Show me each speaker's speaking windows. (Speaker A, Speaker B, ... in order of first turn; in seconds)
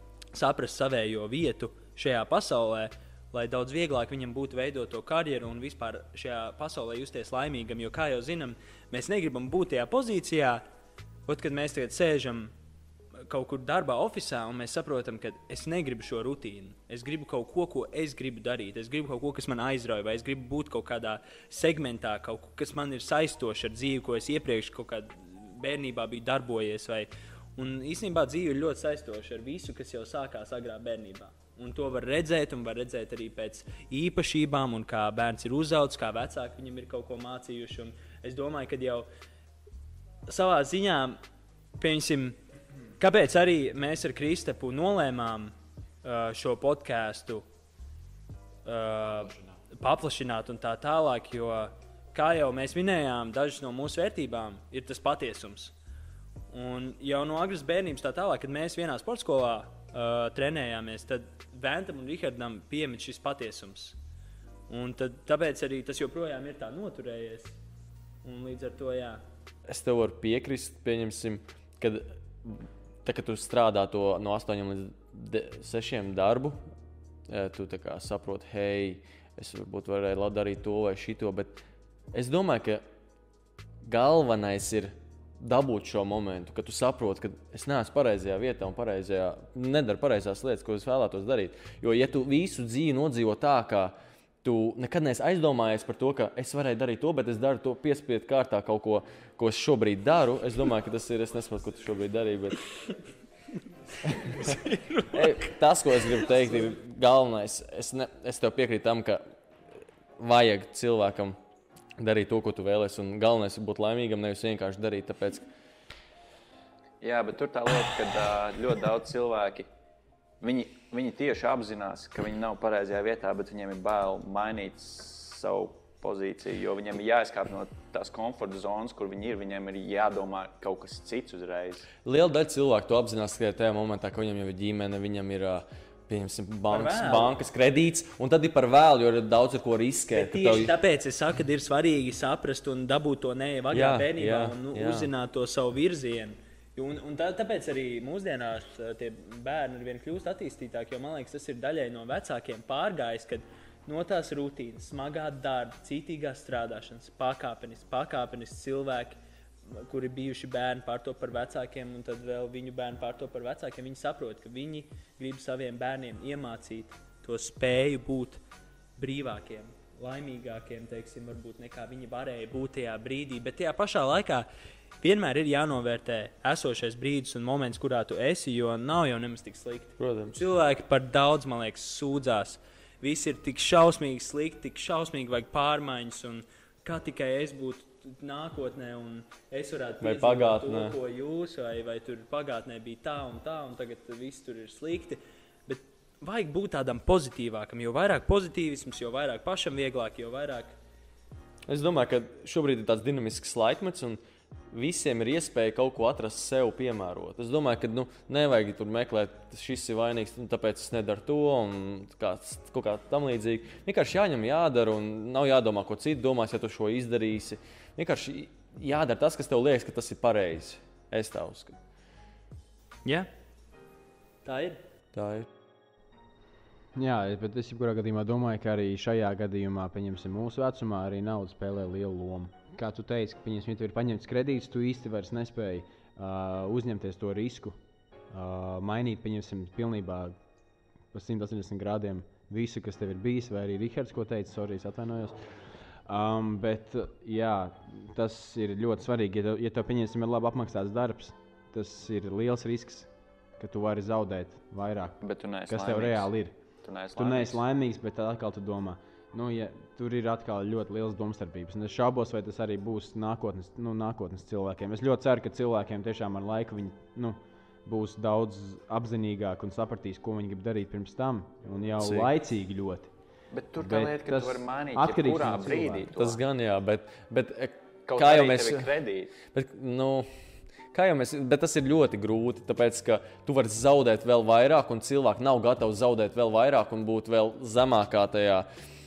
Speaker A: 0.3-10.6, 11.3-12.5, 13.2-39.1, 40.2-41.2, 41.8-42.4, 43.0-47.4, 48.6-55.7, 56.5-64.0, 64.7-67.6, 68.2-69.2, 104.3-105.1, 136.7-137.3, 140.1-159.2, 159.7-168.4, 169.0-174.4, 175.0-200.7, 224.4-224.8
Speaker B: 69.7-76.6, 77.3-81.5, 82.1-82.8, 83.8-102.7, 104.2-104.5, 105.1-109.2, 110.2-111.4, 112.0-115.4, 132.0-140.7, 143.7-145.1, 180.0-180.4, 190.0-190.9, 201.7-204.2, 204.7-221.8, 225.1-225.5, 272.0-272.3, 276.1-280.3, 280.9-288.7
Speaker C: 117.0-119.7, 120.4-131.9, 255.2-256.3, 256.8-257.6, 273.5-276.4, 278.1-279.3
Speaker D: 226.9-237.8, 238.3-240.3, 241.1-245.5, 246.1-256.5, 257.1-273.1, 273.8-276.1